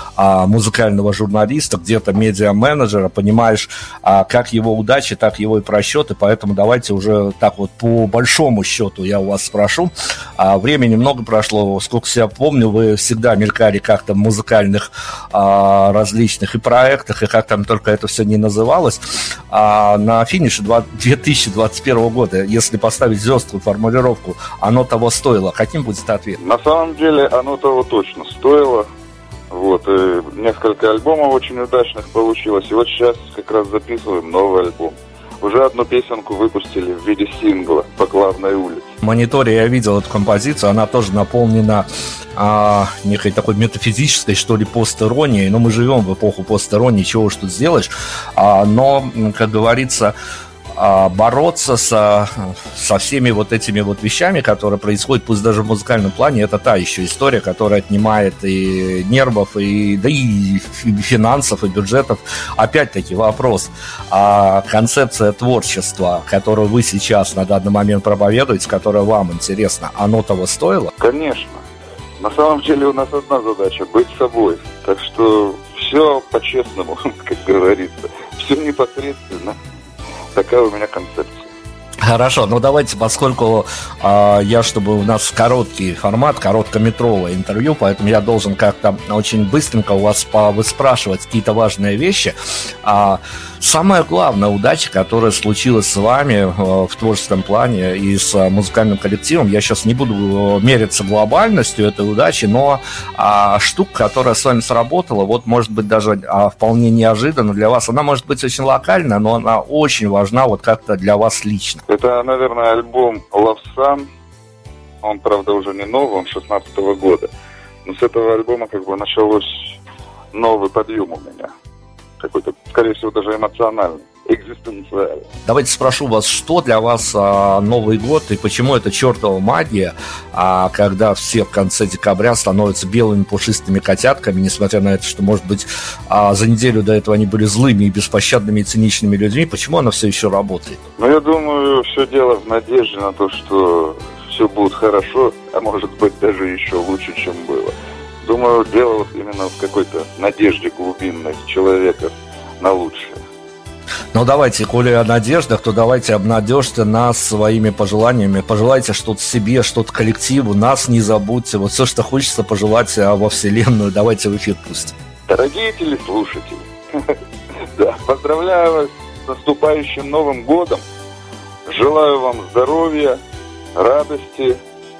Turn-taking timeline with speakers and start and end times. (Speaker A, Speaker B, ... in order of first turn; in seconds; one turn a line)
Speaker A: 0.2-26.4
Speaker B: 26.4-28.9
Speaker B: 29.5-38.9
Speaker A: 39.0-50.1
Speaker A: 50.8-70.9
Speaker B: 71.0-71.6
Speaker B: 72.2-79.6
Speaker B: 80.3-81.5
Speaker A: 82.0-111.8
Speaker B: 111.9-114.1
Speaker B: 115.0-117.3
Speaker B: 117.8-119.7
Speaker B: 120.3-121.5
Speaker B: 122.2-125.3
Speaker A: 125.4-140.8
Speaker B: 141.0-153.2
Speaker A: 154.1-164.9
Speaker B: 165.3-166.6
Speaker B: 167.8-170.8
Speaker B: 171.7-173.2
Speaker B: 173.8-174.6